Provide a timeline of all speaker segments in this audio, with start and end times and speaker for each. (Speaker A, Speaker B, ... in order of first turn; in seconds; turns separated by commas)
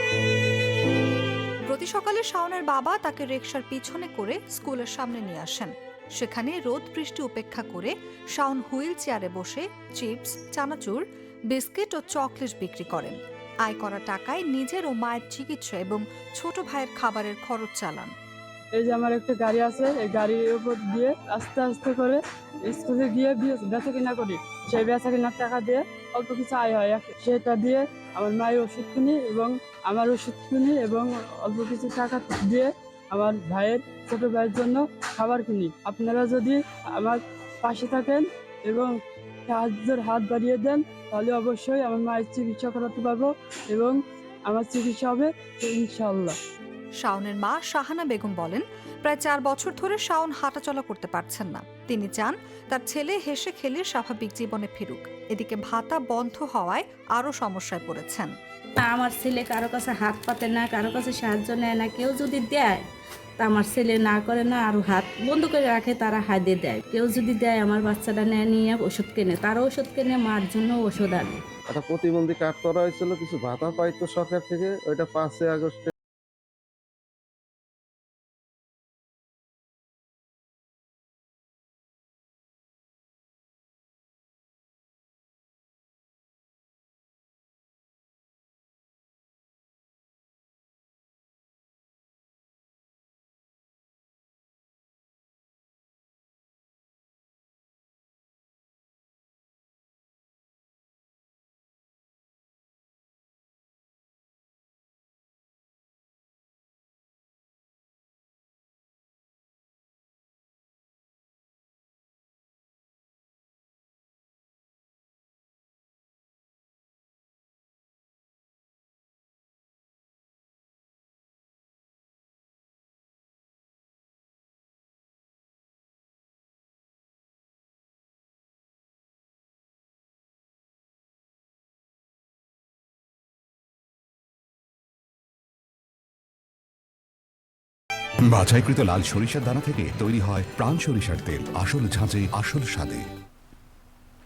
Speaker A: 1.6-18.1, Speaker B: 18.7-46.4, Speaker A: 47.0-58.3, Speaker C: 58.8-62.7, Speaker C: 63.4-71.4, Speaker D: 71.7-75.9, Speaker E: 138.2-143.0